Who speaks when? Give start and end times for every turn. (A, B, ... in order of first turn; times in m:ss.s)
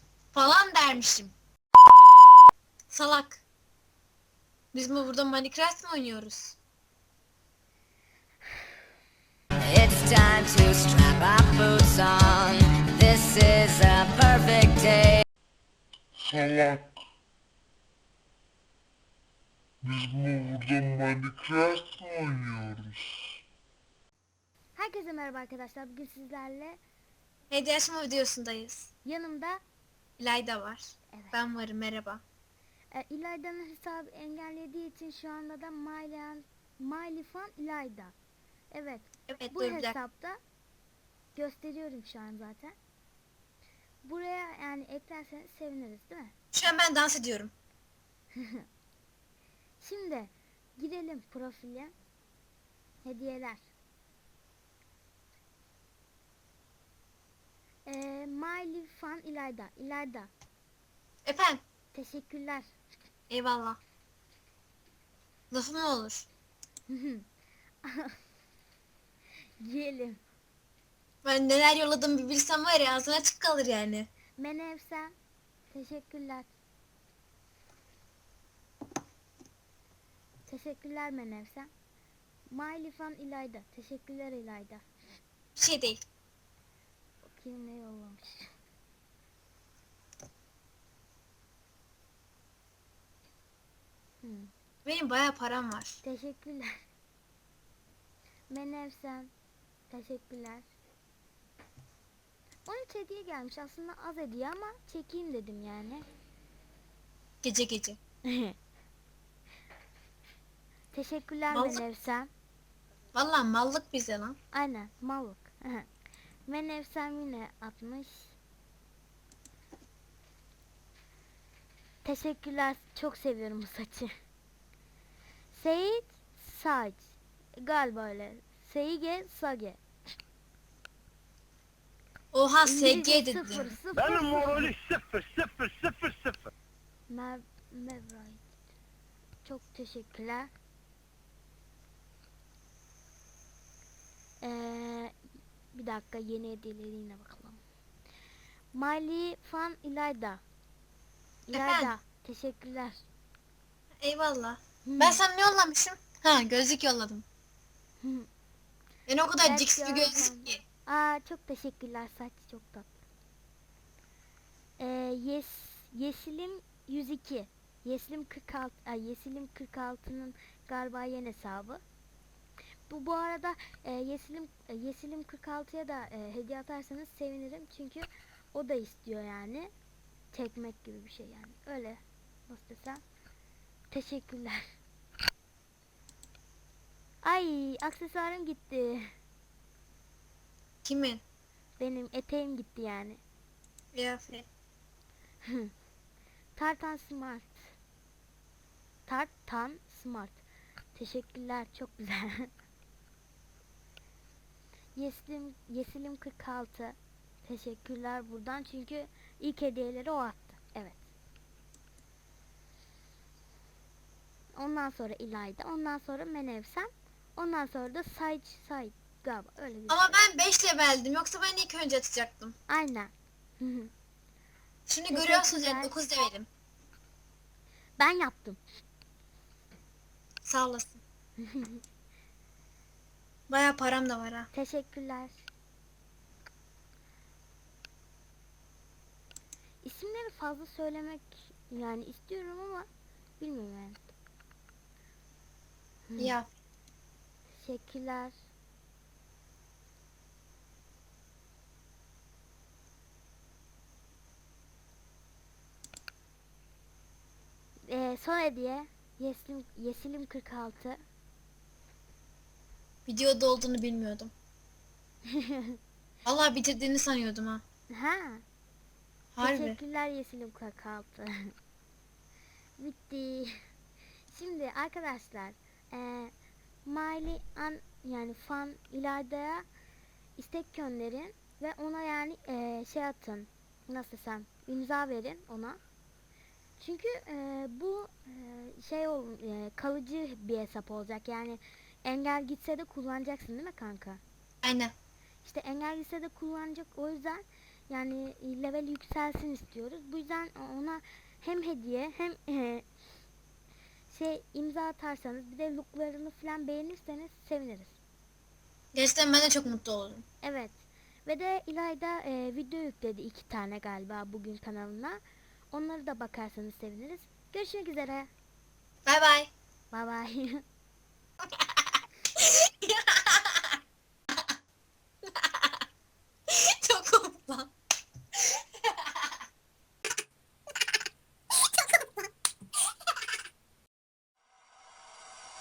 0:00.3-0:01.3 A
0:02.9-0:03.4 A
0:04.7-0:06.6 A
0:09.7-0:15.2 B
0:16.2-0:16.9 C
0:19.8-0:23.2 C
0:24.8-0:26.8 D
0:27.5-0:28.9 A
0:29.0-0:29.6 D
0:30.2-0:32.2 A
0:32.9-0:38.1 D
0:38.7-0:40.4 D
0:39.3-0:40.0 A
0:41.3-0:42.7 D
0:44.0-0:46.3 D
0:46.5-0:47.5 A
0:48.4-0:48.6 D
0:49.8-0:51.9 D
0:53.0-0:53.7 D
0:57.9-1:00.3 D
1:01.3-1:01.6 A
1:01.9-1:02.7 D
1:03.3-1:03.8 A
1:05.5-1:06.2 A
1:06.9-1:07.2 D
1:07.8-1:08.2 D
1:09.6-1:10.2 D
1:11.2-1:14.1 A
1:14.4-1:15.1 D
1:15.7-1:16.5 D
1:20.5-1:21.7 D
1:22.5-1:24.8 D
1:25.6-1:26.0 A
1:27.2-1:28.5 D
1:34.2-1:34.5 D
1:34.9-1:36.0 A
1:36.0-1:36.7 D
1:38.5-1:39.3 D
1:39.9-1:40.7 D
1:42.7-1:46.0 D
1:47.4-1:48.0 A
1:48.3-1:48.6 D
1:50.9-1:52.3 D
1:51.5-1:51.8 A
1:53.1-1:54.4 A
1:54.5-1:55.9 D
1:56.5-1:58.3 D
2:02.0-2:04.1 D
2:05.5-2:09.8 D
2:12.3-2:13.7 A
2:12.6-2:14.7 D
2:14.0-2:16.5 E
2:17.1-2:18.5 D
2:19.4-2:20.5 D
2:24.4-2:25.2 D
2:25.7-2:27.6 D
2:28.7-2:30.4 D
2:31.5-2:33.0 D
2:31.5-2:31.9 A
2:34.0-2:37.2 A
2:34.9-2:35.2 D
2:38.0-2:38.3 D
2:39.1-2:40.6 A
2:39.4-2:42.9 D
2:44.8-2:51.8 D
2:52.9-2:59.7 D
3:00.3-3:03.0 D
3:03.9-3:04.6 D
3:07.2-3:09.1 D
3:10.8-3:11.2 A
3:11.8-3:13.2 D
3:14.0-3:14.4 A
3:15.4-3:15.7 D
3:16.6-3:17.7 D
3:19.1-3:20.4 D
3:20.9-3:22.5 D
3:25.0-3:31.0 D
3:34.5-3:40.2 D
3:39.9-3:42.6 A
3:42.7-3:43.9 D
3:44.9-3:46.5 A
3:45.1-3:45.9 D
3:48.0-3:48.6 D
3:50.4-3:51.0 A
3:51.4-3:51.8 D
3:53.5-3:54.5 A
3:54.5-3:55.4 D
3:59.8-4:02.9 D
4:03.4-4:04.1 D
4:06.1-4:06.3 D
4:06.2-4:06.4 A
4:07.6-4:08.3 D
4:17.9-4:21.0 D
4:23.1-4:24.3 A
4:25.3-4:25.8 D
4:26.2-4:27.6 A
4:27.9-4:28.4 D
4:29.4-4:29.8 A
4:29.4-4:31.5 D
4:32.8-4:33.6 D
4:34.3-4:36.3 D
4:36.9-4:39.7 D
4:40.4-4:45.8 D
4:46.8-4:54.2 D
4:54.6-4:54.9 A
4:55.4-5:02.9 D
5:04.1-5:07.9 D
5:08.9-5:10.2 A
5:10.4-5:15.2 D
5:15.7-5:18.3 D
5:19.1-5:19.5 A
5:19.9-5:20.6 D
5:22.4-5:23.6 A
5:26.5-5:27.7 A